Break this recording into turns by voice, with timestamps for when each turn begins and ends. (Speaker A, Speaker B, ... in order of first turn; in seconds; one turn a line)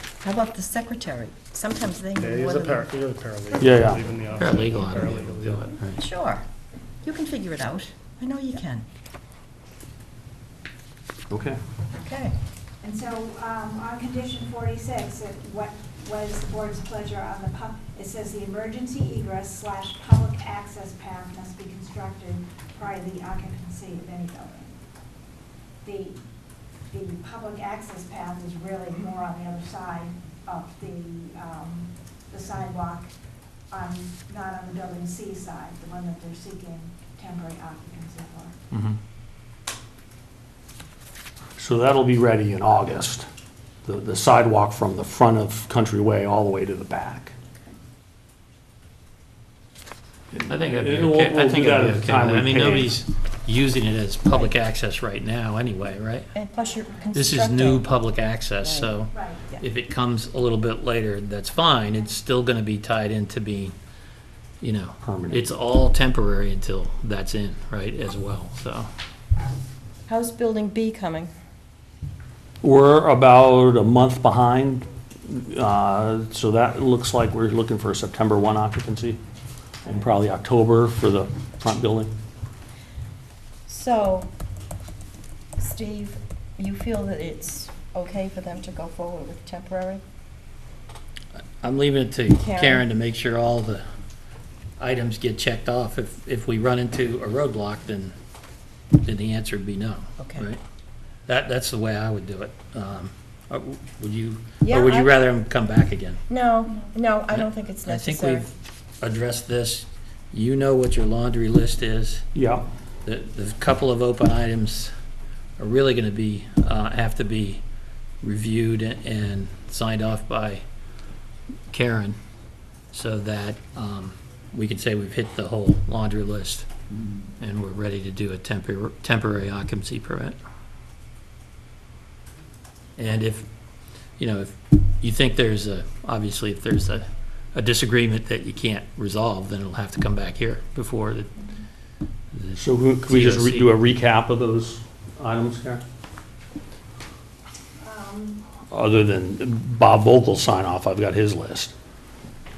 Speaker A: 0.2-2.8
Speaker B: 2.2-5.8
Speaker C: 3.6-4.1
Speaker D: 4.3-6.0
Speaker A: 6.0-6.4
Speaker A: 7.0-8.8
Speaker C: 11.3-11.6
Speaker A: 12.0-12.3
Speaker E: 12.8-24.8
Speaker E: 25.8-26.2
Speaker E: 26.9-33.1
Speaker E: 33.7-38.6
Speaker D: 38.7-39.0
Speaker C: 41.6-43.3
Speaker C: 43.9-47.3
Speaker C: 50.3-53.0
Speaker D: 50.5-56.3
Speaker A: 56.4-57.9
Speaker E: 56.5-57.0
Speaker D: 57.1-63.8
Speaker A: 58.6-58.9
Speaker E: 59.1-59.5
Speaker D: 64.6-68.9
Speaker C: 65.0-65.4
Speaker A: 70.1-71.3
Speaker C: 72.6-79.2
Speaker C: 79.8-82.1
Speaker A: 83.7-84.3
Speaker A: 85.6-90.0
Speaker D: 91.6-93.8
Speaker A: 92.4-92.9
Speaker D: 94.8-98.2
Speaker D: 99.0-100.6
Speaker D: 101.3-106.2
Speaker A: 104.6-105.1
Speaker A: 106.3-108.5
Speaker D: 107.3-112.3
Speaker C: 112.3-112.7
Speaker D: 113.0-114.9
Speaker D: 115.6-117.6
Speaker D: 118.2-120.6
Speaker D: 121.7-122.2
Speaker D: 122.9-126.7
Speaker D: 127.4-130.4
Speaker D: 133.0-133.5
Speaker D: 134.2-141.3
Speaker D: 142.3-143.8
Speaker C: 142.6-145.8
Speaker E: 147.8-148.4
Speaker C: 148.7-151.7